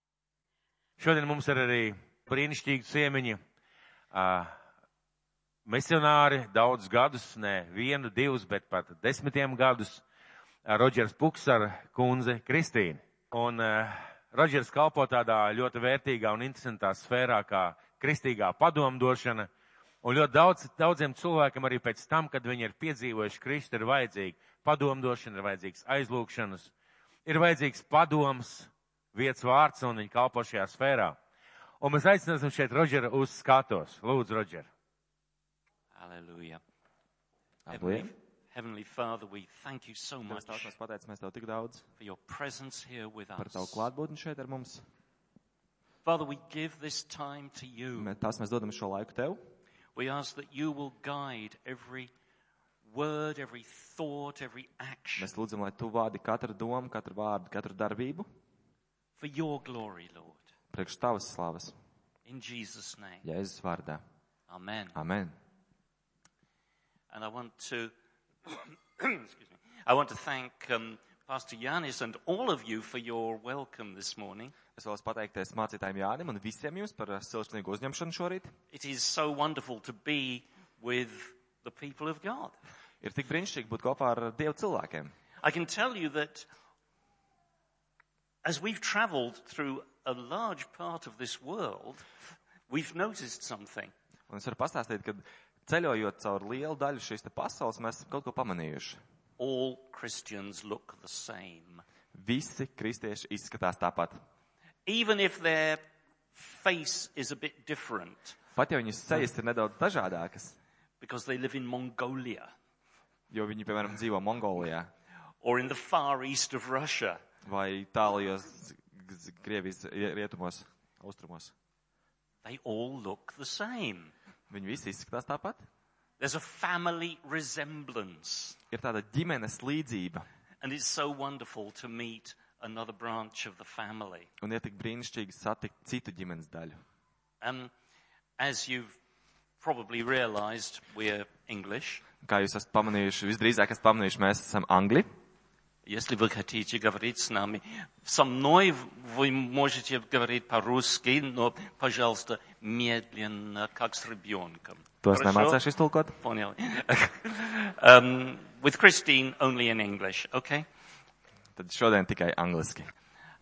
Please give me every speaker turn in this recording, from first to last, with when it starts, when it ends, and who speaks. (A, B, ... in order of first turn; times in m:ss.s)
0:01.0-0:03.4 A
0:04.1-0:04.5 A
0:05.7-0:10.0 A
0:10.6-0:19.5 A
0:20.0-0:26.7 A
0:27.2-0:31.2 A
0:31.8-0:34.7 A
0:36.0-0:36.6 B
0:37.7-0:38.1 C
0:37.7-0:40.7 B
0:40.3-0:41.8 C
0:42.0-0:43.8 B
0:43.4-0:44.8 C
0:46.0-0:48.1 B
0:48.0-0:49.4 C
0:50.0-0:52.1 B
0:52.9-0:55.3 B
0:55.2-0:58.3 C
0:59.2-1:00.5 B
1:00.7-1:01.8 C
1:02.2-1:03.2 B
1:03.2-1:04.0 C
1:04.5-1:05.0 B
1:05.0-1:05.3 C
1:07.1-1:07.9 B
1:08.4-1:14.6 B
1:14.8-1:18.5 C
1:18.7-1:22.6 B
1:23.0-1:25.1 C
1:25.4-1:26.5 B
1:28.4-1:32.0 B
1:32.7-1:33.9 B
1:34.3-1:39.0 C
1:39.4-1:41.8 B
1:42.1-1:44.1 C
1:44.9-1:45.8 B
1:46.3-1:48.4 B
1:48.6-1:50.6 C
1:51.0-1:52.5 B
1:53.3-1:54.9 C
1:55.4-1:57.2 B
1:57.4-2:01.5 C
2:02.4-2:04.1 B
2:04.5-2:05.6 C
2:06.2-2:08.6 B
2:08.7-2:10.2 C
2:10.6-2:14.3 B
2:14.4-2:16.8 C
2:17.4-2:17.7 B
2:18.4-2:19.0 B
2:19.6-2:22.0 B
2:22.2-2:25.1 C
2:25.8-2:35.6 B
2:35.0-2:36.2 C
2:36.2-2:40.7 B
2:41.6-2:42.9 C